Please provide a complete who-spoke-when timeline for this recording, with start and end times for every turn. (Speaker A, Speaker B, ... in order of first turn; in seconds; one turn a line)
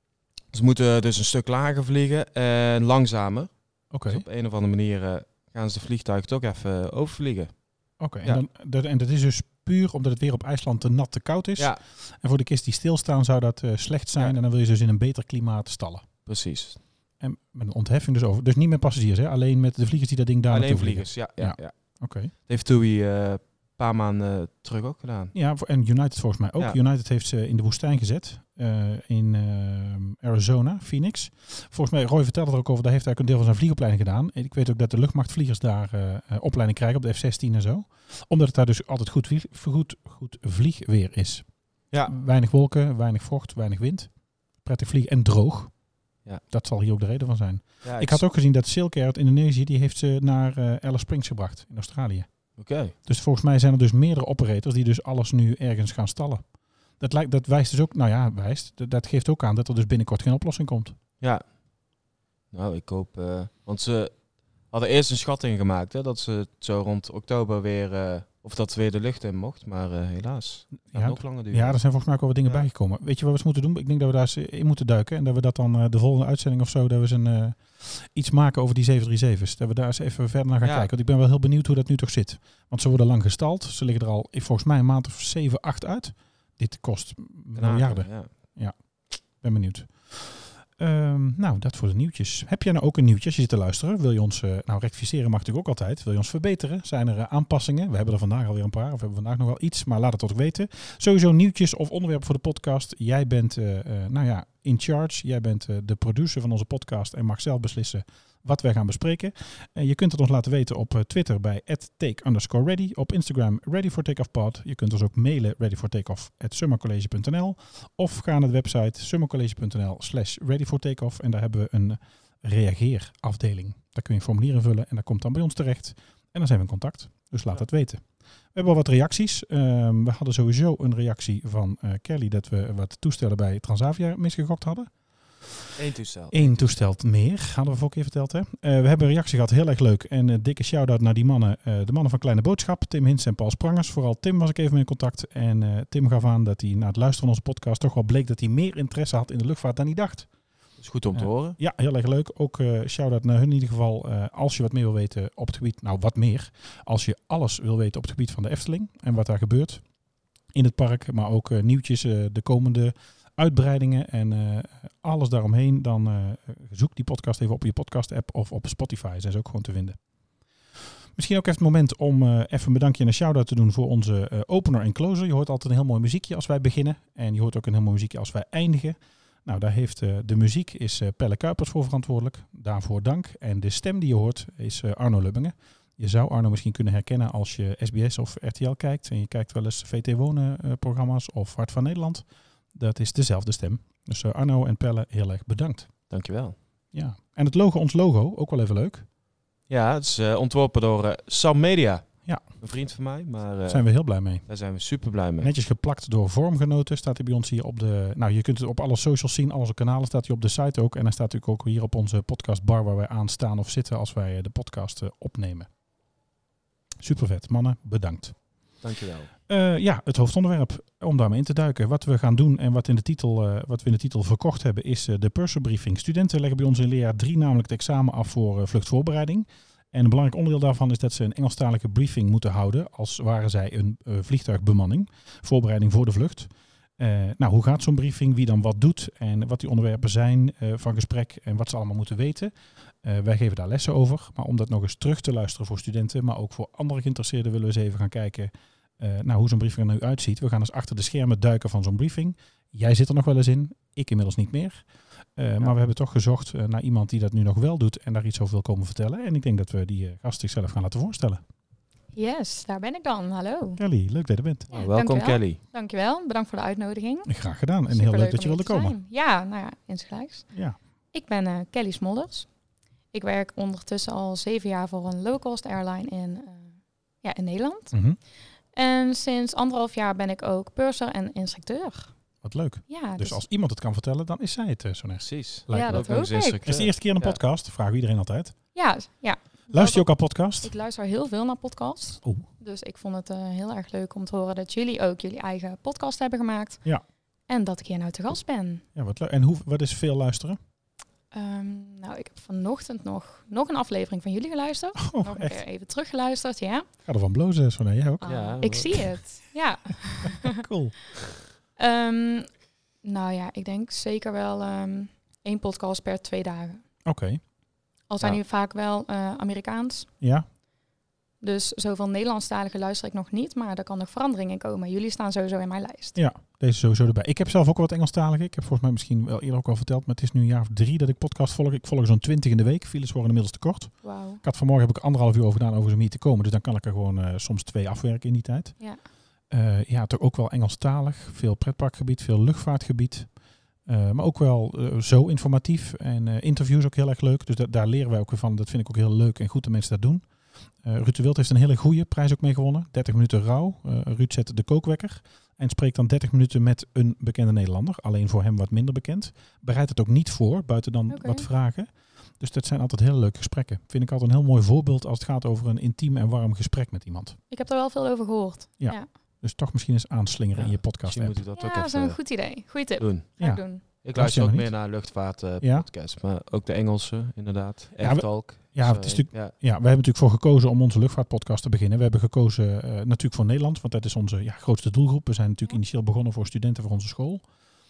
Speaker A: 0.5-7.5
Speaker B: 3.9-4.2
Speaker B: 8.0-16.1
Speaker A: 16.2-16.8
Speaker B: 17.2-22.3
Speaker A: 20.5-21.7
Speaker A: 22.5-25.3
Speaker B: 25.3-41.5
Speaker B: 42.1-44.1
Speaker B: 44.6-45.7
Speaker B: 46.5-52.3
Speaker A: 47.8-48.2
Speaker A: 52.6-52.9
Speaker B: 53.0-56.4
Speaker B: 57.0-61.0
Speaker A: 62.5-64.1
Speaker A: 64.7-71.8
Speaker B: 70.8-128.0
Speaker A: 80.6-80.9
Speaker A: 87.5-88.3
Speaker B: 128.5-135.7
Speaker A: 135.8-136.5
Speaker B: 136.3-150.3
Speaker A: 150.8-151.6
Speaker B: 151.1-159.8
Speaker B: 160.5-170.0
Speaker B: 171.2-195.9
Speaker A: 196.1-196.5
Speaker B: 196.9-199.1
Speaker A: 199.7-203.8
Speaker B: 203.7-204.4
Speaker A: 204.5-205.5
Speaker B: 205.4-215.7
Speaker B: 217.0-218.3
Speaker A: 218.8-219.3
Speaker B: 219.5-254.8
Speaker B: 255.3-261.4
Speaker C: 262.1-263.8
Speaker B: 263.8-264.7
Speaker A: 264.7-265.6
Speaker C: 264.7-267.3
Speaker B: 267.3-268.9
Speaker C: 267.9-270.5
Speaker C: 271.1-272.5
Speaker C: 273.1-278.0
Speaker B: 277.9-278.2
Speaker C: 278.7-282.1
Speaker B: 282.4-288.5
Speaker C: 282.9-283.4
Speaker A: 285.2-287.4
Speaker C: 285.7-286.6
Speaker C: 288.7-296.8
Speaker B: 289.7-290.7
Speaker C: 297.5-298.8
Speaker B: 298.9-300.6
Speaker C: 301.3-306.9
Speaker B: 304.9-305.6
Speaker B: 307.0-309.0
Speaker C: 308.2-310.6
Speaker A: 308.2-309.1
Speaker B: 310.2-311.1
Speaker C: 311.8-312.5
Speaker C: 313.0-316.8
Speaker B: 317.0-317.4
Speaker C: 318.1-320.1
Speaker B: 320.2-320.4
Speaker C: 321.4-326.2
Speaker B: 326.1-338.8
Speaker C: 334.0-334.4
Speaker B: 339.5-343.3
Speaker B: 343.9-350.2
Speaker B: 350.8-367.4
Speaker C: 361.1-361.5
Speaker C: 367.5-369.1
Speaker B: 368.8-371.4
Speaker A: 370.5-372.3
Speaker C: 371.6-373.8
Speaker A: 373.0-379.5
Speaker B: 373.4-374.9
Speaker B: 375.6-375.9
Speaker B: 378.0-387.4